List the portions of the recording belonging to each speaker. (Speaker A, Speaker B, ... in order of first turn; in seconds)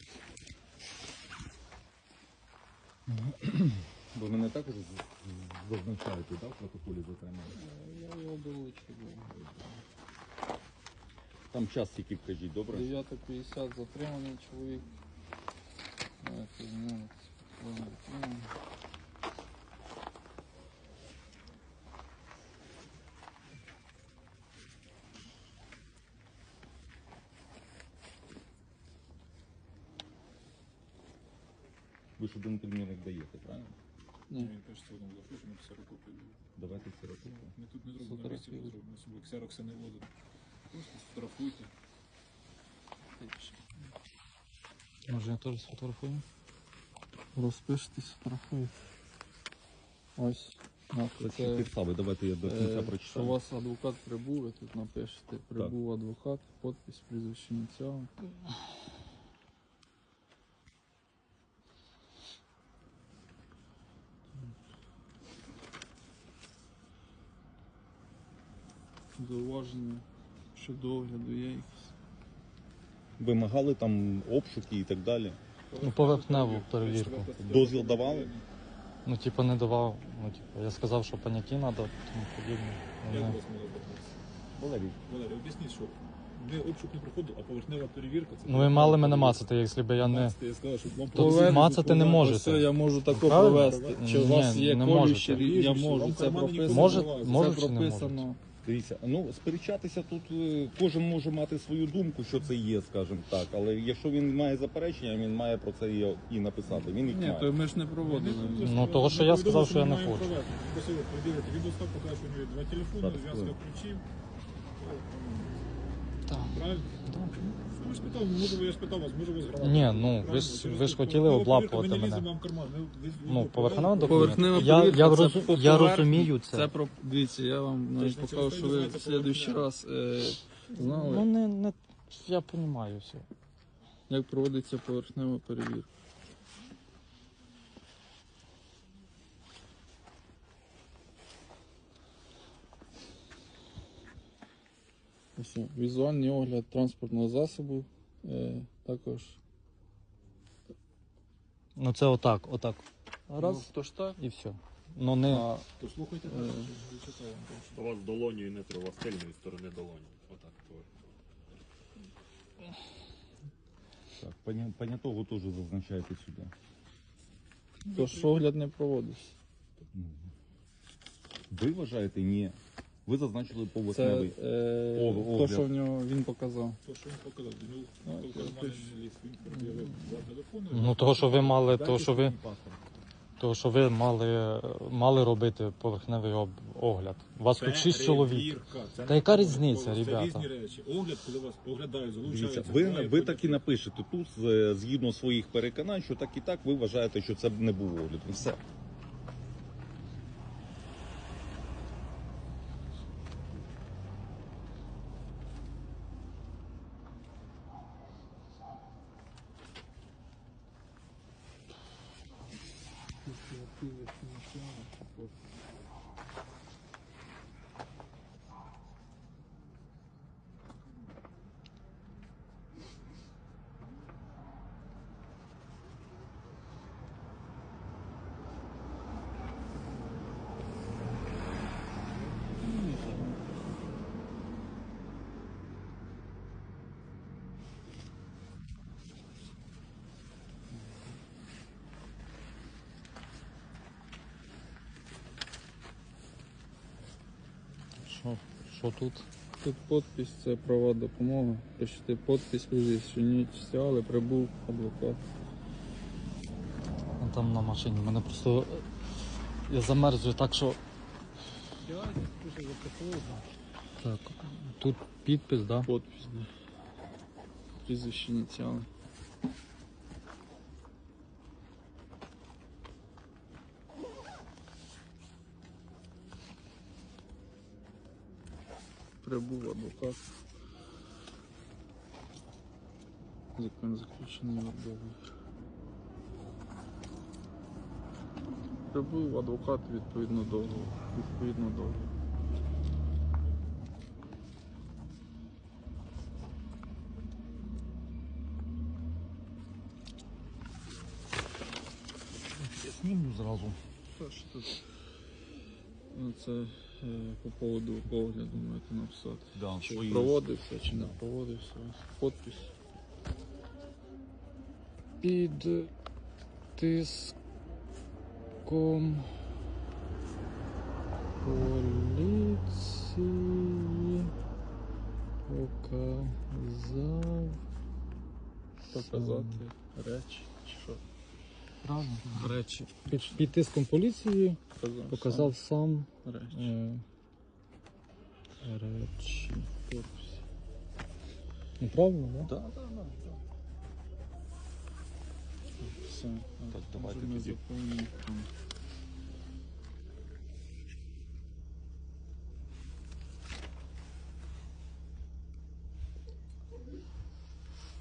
Speaker A: 3.1-7.6, 9.3-9.6, 11.5-12.9, 32.2-33.8, 36.6-37.5, 51.2-53.4, 73.2-75.4, 77.4-78.3, 84.6-85.0, 98.6-107.5, 113.0-113.5, 164.2-166.5, 169.9-170.3, 171.5-174.4, 174.9-175.7, 192.2-198.6, 302.5-303.8, 309.5-311.1, 342.4-343.4, 346.7-347.6
Speaker B: 7.5-9.3, 12.7-14.9, 16.2-18.5, 38.0-38.7, 43.2-43.6, 47.3-48.7, 50.2-51.7, 52.4-58.1, 69.2-71.9, 75.7-76.6, 91.1-98.4, 107.0-108.7, 124.0-131.3, 134.1-135.9, 145.3-149.4, 153.4-154.2, 155.2-155.7, 156.3-156.7, 167.8-169.2, 173.9-176.8, 178.0-178.9, 213.2-215.3, 232.6-233.6, 249.6-255.2, 265.9-266.5, 267.8-268.9, 279.2-280.2, 283.6-285.2, 288.9-292.1, 304.1-304.8, 306.1-312.7, 328.9-331.0, 334.8-335.6, 336.2-336.7, 339.9-340.4, 345.8-348.5
Speaker C: 34.4-36.4, 37.4-40.1, 40.7-41.7, 76.1-78.4, 83.0-84.1, 85.1-92.0, 93.1-94.1, 95.3-97.4, 108.0-114.0, 114.8-115.5, 116.5-117.0, 117.5-124.9, 128.0-129.7, 155.8-157.8, 167.8-168.4, 176.8-182.8, 187.5-193.6, 261.8-263.5
Speaker D: 45.1-46.2, 75.8-77.6, 79.1-83.4, 88.5-90.4, 91.1-95.4, 96.6-98.3, 108.5-110.4, 116.3-117.5, 119.6-122.3, 123.3-126.7, 130.7-133.2, 151.8-155.5, 180.7-182.4, 183.4-188.5, 189.1-190.5, 248.0-249.3, 257.2-258.9, 259.7-260.8, 264.0-265.9, 315.2-315.9, 316.8-317.4, 318.6-319.4, 321.4-324.3, 325.5-327.6, 328.9-329.6, 331.8-337.0, 338.6-339.7, 341.8-342.5
Speaker E: 157.7-160.9